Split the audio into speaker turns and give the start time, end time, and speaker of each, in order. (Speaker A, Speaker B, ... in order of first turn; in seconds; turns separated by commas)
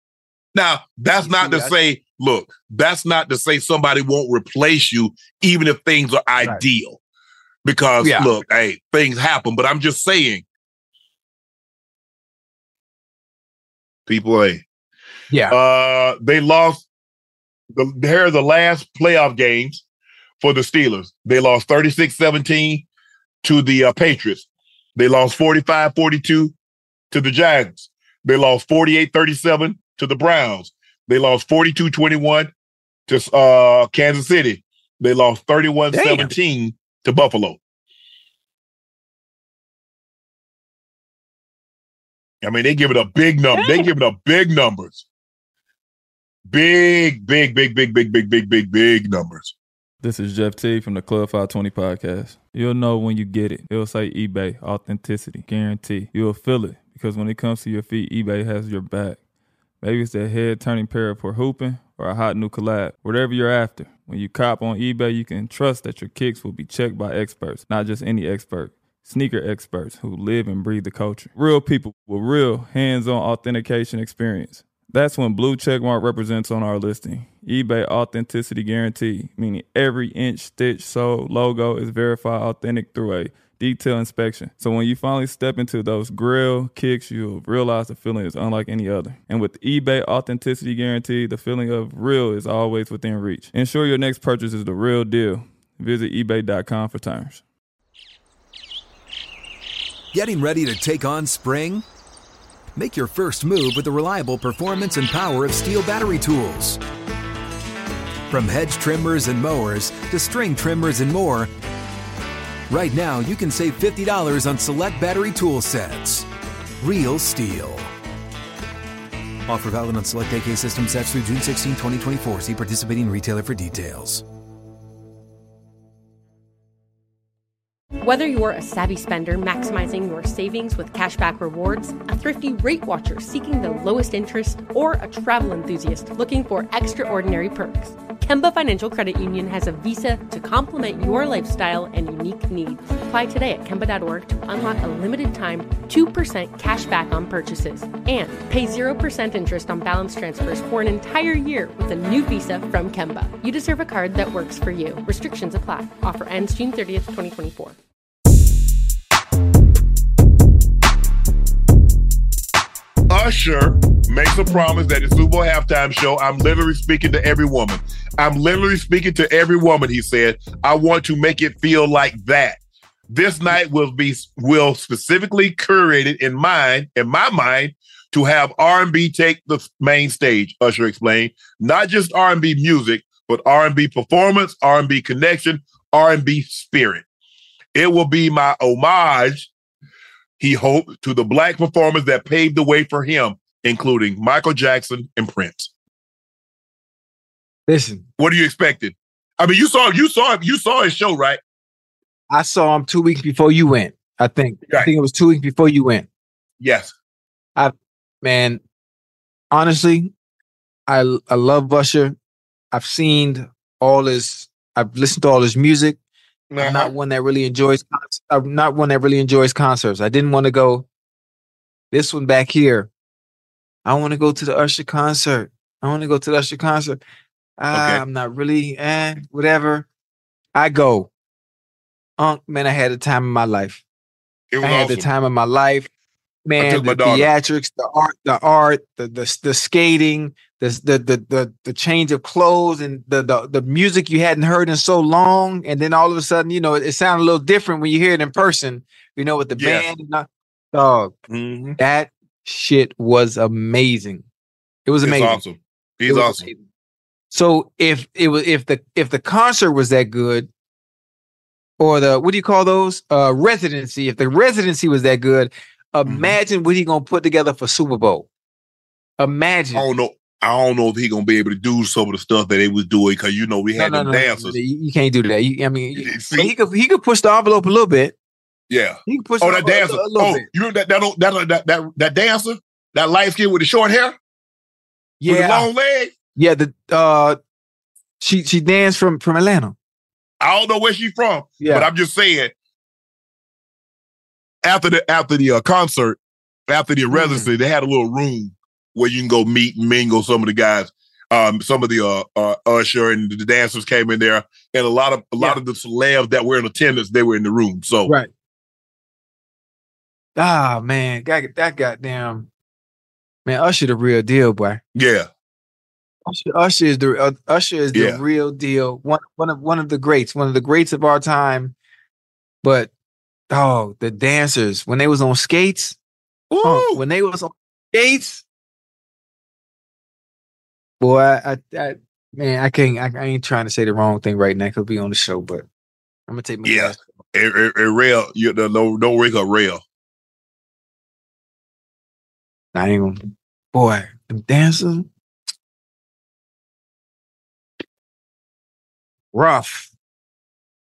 Speaker A: 0.5-7.0, Speaker B: 1.2-1.7, Speaker A: 7.6-10.4, Speaker B: 8.0-8.3, Speaker A: 14.1-14.6, Speaker A: 15.5-16.9, Speaker A: 17.7-19.8, Speaker A: 20.4-22.9, Speaker A: 23.4-26.5, Speaker A: 27.1-32.5, Speaker A: 33.1-37.6, Speaker B: 35.9-36.3, Speaker A: 42.4-45.0, Speaker B: 43.5-43.9, Speaker A: 46.5-49.5, Speaker C: 50.0-59.2, Speaker C: 59.8-97.4, Speaker D: 100.1-101.8, Speaker D: 102.7-106.8, Speaker D: 108.3-111.5, Speaker D: 112.7-116.3, Speaker D: 116.8-117.9, Speaker D: 119.5-124.2, Speaker E: 128.0-157.8, Speaker A: 163.1-187.0, Speaker A: 187.7-189.5, Speaker A: 190.4-195.7, Speaker B: 197.7-198.0, Speaker A: 198.2-201.4, Speaker B: 202.3-206.1, Speaker A: 206.6-206.9, Speaker B: 207.6-208.6, Speaker B: 209.5-210.1, Speaker B: 210.9-212.2, Speaker B: 212.7-216.0, Speaker A: 216.5-216.9, Speaker B: 216.6-220.8, Speaker B: 221.9-222.9, Speaker B: 223.8-227.0, Speaker B: 227.6-229.9, Speaker A: 227.7-228.0, Speaker B: 230.5-231.1, Speaker B: 232.2-233.8, Speaker A: 234.5-235.1, Speaker B: 234.6-235.9, Speaker B: 236.4-251.1, Speaker A: 236.6-237.3, Speaker A: 249.6-249.9, Speaker A: 251.3-251.8, Speaker B: 251.8-254.2, Speaker B: 254.8-255.4, Speaker A: 255.0-256.5, Speaker B: 256.1-256.6, Speaker B: 257.3-260.5, Speaker B: 261.8-268.3, Speaker A: 266.1-266.4, Speaker B: 269.2-269.8, Speaker A: 269.7-274.6, Speaker B: 273.8-278.1, Speaker A: 275.9-276.5, Speaker A: 278.7-284.2, Speaker B: 279.1-280.4, Speaker B: 285.2-285.7, Speaker A: 285.2-286.1, Speaker B: 286.4-287.4, Speaker B: 288.2-289.7, Speaker A: 290.4-292.5, Speaker B: 291.6-291.9, Speaker A: 294.6-308.1, Speaker B: 297.1-297.5, Speaker B: 310.4-312.5, Speaker B: 313.4-314.8, Speaker A: 314.9-315.3, Speaker B: 316.3-321.7, Speaker A: 317.9-318.2, Speaker B: 322.6-322.9, Speaker B: 323.5-326.0, Speaker A: 326.5-327.0, Speaker B: 326.6-328.4, Speaker B: 331.0-335.6, Speaker B: 336.3-337.1, Speaker A: 336.6-339.8, Speaker B: 342.7-345.1, Speaker B: 349.3-349.9